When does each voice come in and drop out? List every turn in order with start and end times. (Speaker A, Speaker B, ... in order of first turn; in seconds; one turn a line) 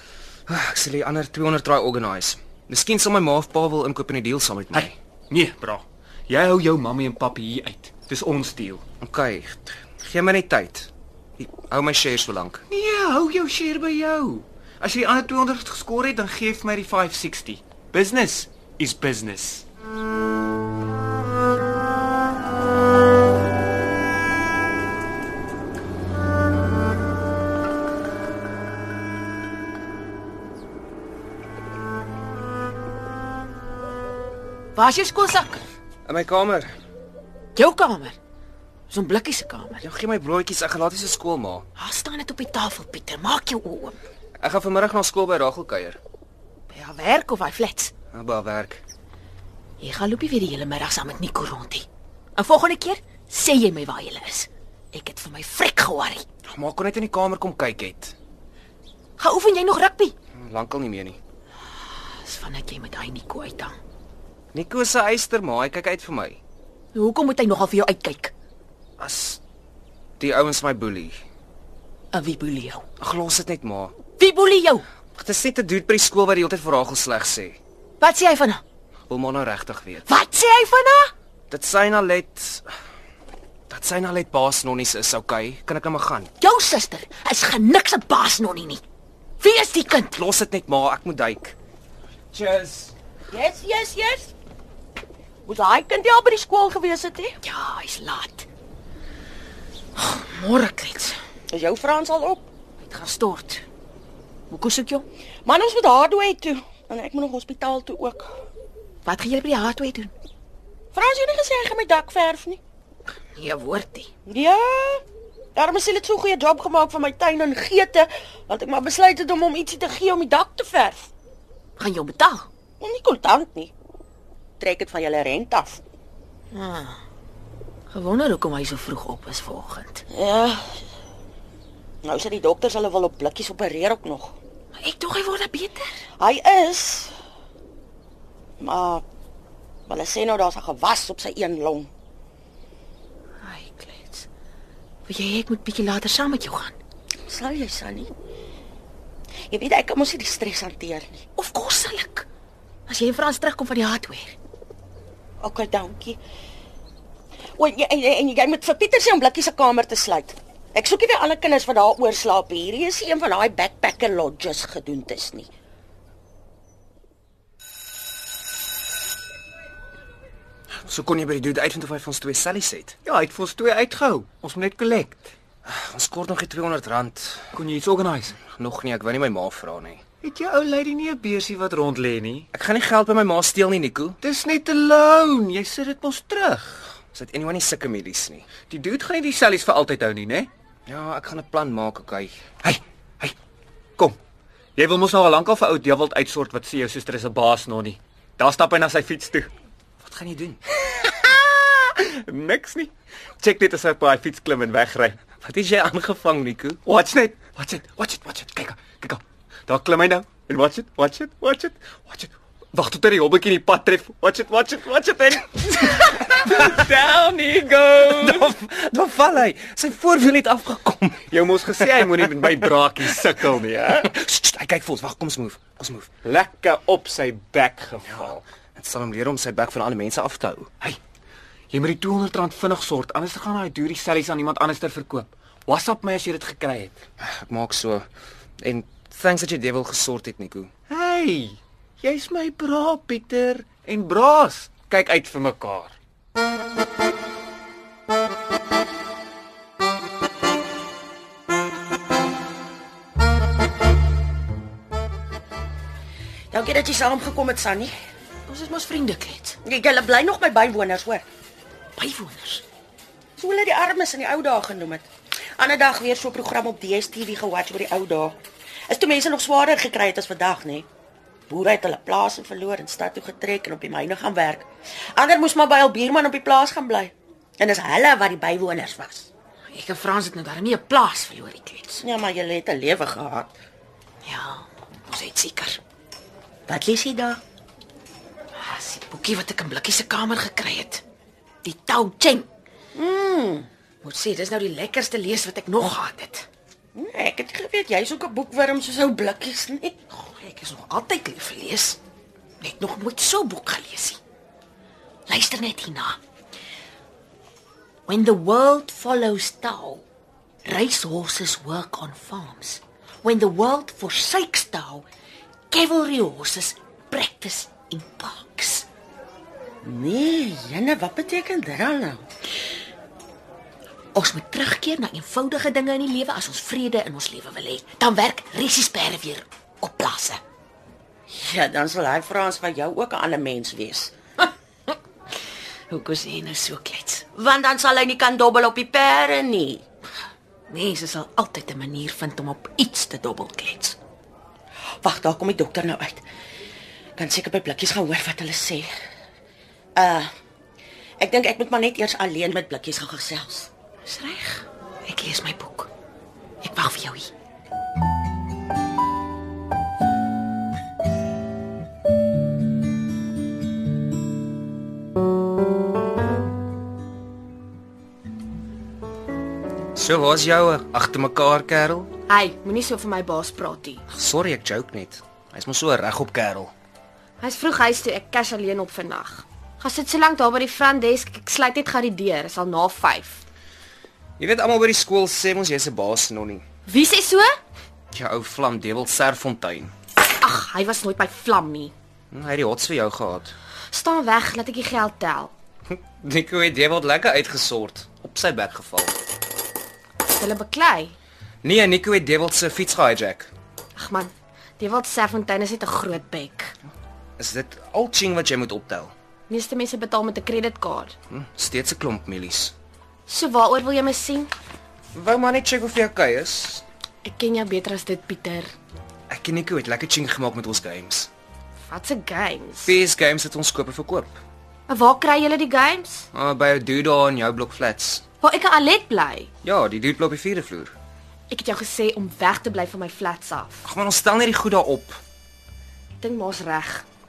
Speaker A: 0.5-5.0
Speaker B: 4.7-8.8
Speaker A: 9.0-12.6
Speaker B: 12.7-19.6
Speaker C: 34.8-35.6
Speaker A: 36.1-36.7
Speaker C: 37.6-38.2
Speaker C: 38.9-39.8
Speaker A: 39.8-41.7
Speaker C: 41.8-44.0
Speaker A: 44.4-46.0
Speaker C: 46.7-47.9
Speaker A: 48.1-48.8
Speaker C: 49.8-56.2
Speaker A: 56.5-58.1
Speaker C: 59.2-60.1
Speaker A: 60.3-61.2
Speaker C: 62.2-63.8
Speaker A: 64.5-66.4
Speaker C: 67.0-68.3
Speaker A: 69.0-69.4
Speaker A: 70.2-71.2
Speaker C: 72.1-72.8
Speaker A: 73.0-74.0
Speaker C: 74.2-74.8
Speaker A: 75.2-77.6
Speaker C: 78.0-78.6
Speaker A: 79.1-80.1
Speaker C: 80.1-81.1
Speaker A: 81.5-82.7
Speaker A: 83.7-86.3
Speaker C: 86.4-88.8
Speaker C: 89.4-90.1
Speaker A: 90.0-91.6
Speaker B: 92.3-92.9
Speaker D: 93.3-94.3
Speaker D: 95.5-97.4
Speaker C: 97.4-98.5
Speaker C: 100.0-101.2
Speaker D: 101.5-102.5
Speaker C: 102.8-103.6
Speaker C: 104.5-105.0
Speaker D: 105.5-108.3
Speaker C: 109.0-110.1
Speaker D: 110.9-112.6
Speaker C: 113.4-114.1
Speaker D: 114.3-115.0
Speaker D: 115.5-121.1
Speaker C: 121.8-122.5
Speaker D: 122.8-123.7
Speaker D: 124.6-125.8
Speaker C: 126.5-127.0
Speaker C: 127.9-130.0
Speaker D: 130.1-130.8
Speaker D: 132.0-134.4
Speaker C: 134.8-135.9
Speaker D: 136.2-137.2
Speaker D: 138.6-139.0
Speaker D: 139.9-141.9
Speaker C: 143.4-144.3
Speaker C: 145.1-146.8
Speaker D: 147.3-148.1
Speaker D: 149.5-151.2
Speaker C: 151.4-152.3
Speaker C: 152.9-154.3
Speaker D: 155.4-156.2
Speaker D: 157.6-165.5
Speaker A: 170.9-173.0
Speaker B: 173.1-175.3
Speaker A: 175.7-177.5
Speaker B: 177.5-178.4
Speaker A: 178.4-180.0
Speaker B: 180.2-182.5
Speaker A: 182.5-184.2
Speaker B: 184.2-186.9
Speaker A: 187.1-188.5
Speaker B: 188.7-190.5
Speaker A: 190.9-192.4
Speaker B: 192.6-193.3
Speaker B: 194.8-199.5
Speaker A: 200.0-200.6
Speaker B: 200.9-205.2
Speaker A: 205.4-206.8
Speaker B: 206.9-218.6
Speaker A: 218.1-221.3
Speaker B: 221.3-224.1
Speaker A: 222.0-222.5
Speaker A: 224.0-226.1
Speaker B: 226.2-228.4
Speaker A: 228.1-230.7
Speaker B: 231.7-237.0
Speaker A: 237.2-238.1
Speaker A: 238.6-240.7
Speaker B: 240.9-245.9
Speaker D: 256.5-257.9
Speaker C: 258.5-259.6
Speaker D: 259.6-261.2
Speaker C: 262.0-262.6
Speaker D: 263.4-265.1
Speaker D: 265.6-268.4
Speaker D: 268.9-270.9
Speaker D: 271.5-279.3
Speaker C: 279.7-282.0
Speaker D: 282.0-283.6
Speaker C: 284.2-285.8
Speaker D: 286.7-287.4
Speaker C: 288.6-291.0
Speaker C: 291.6-292.5
Speaker D: 292.9-293.7
Speaker C: 294.0-296.5
Speaker D: 296.9-300.0
Speaker C: 300.1-302.0
Speaker C: 302.6-304.2
Speaker C: 305.3-306.2
Speaker C: 308.1-310.0
Speaker C: 310.6-315.1
Speaker C: 315.7-318.9
Speaker D: 319.8-322.2
Speaker C: 324.1-330.4
Speaker D: 331.3-334.1
Speaker C: 335.9-337.2
Speaker D: 337.4-339.8
Speaker C: 340.7-344.0
Speaker D: 345.0-346.2
Speaker D: 347.2-348.9
Speaker D: 350.0-350.3
Speaker D: 351.2-353.7
Speaker C: 354.1-355.9
Speaker C: 356.6-357.3
Speaker A: 369.9-372.1
Speaker E: 372.3-374.0
Speaker A: 374.1-376.7
Speaker E: 377.4-383.4
Speaker A: 384.4-386.6
Speaker E: 386.9-387.5
Speaker A: 388.1-389.9
Speaker E: 390.4-391.9
Speaker A: 392.3-393.5
Speaker E: 393.9-395.5
Speaker A: 396.1-399.2
Speaker E: 400.2-401.1
Speaker A: 401.6-403.5
Speaker E: 404.0-406.8
Speaker A: 407.4-409.1
Speaker E: 409.5-411.1
Speaker A: 411.3-412.7
Speaker E: 413.3-414.5
Speaker A: 415.1-416.9
Speaker E: 417.2-418.7
Speaker A: 419.3-421.3
Speaker E: 421.9-422.9
Speaker A: 422.8-424.4
Speaker E: 424.9-426.3
Speaker A: 426.3-428.2
Speaker E: 428.4-429.5
Speaker A: 429.6-430.9
Speaker E: 431.5-433.8
Speaker A: 433.8-435.2
Speaker E: 436.2-437.1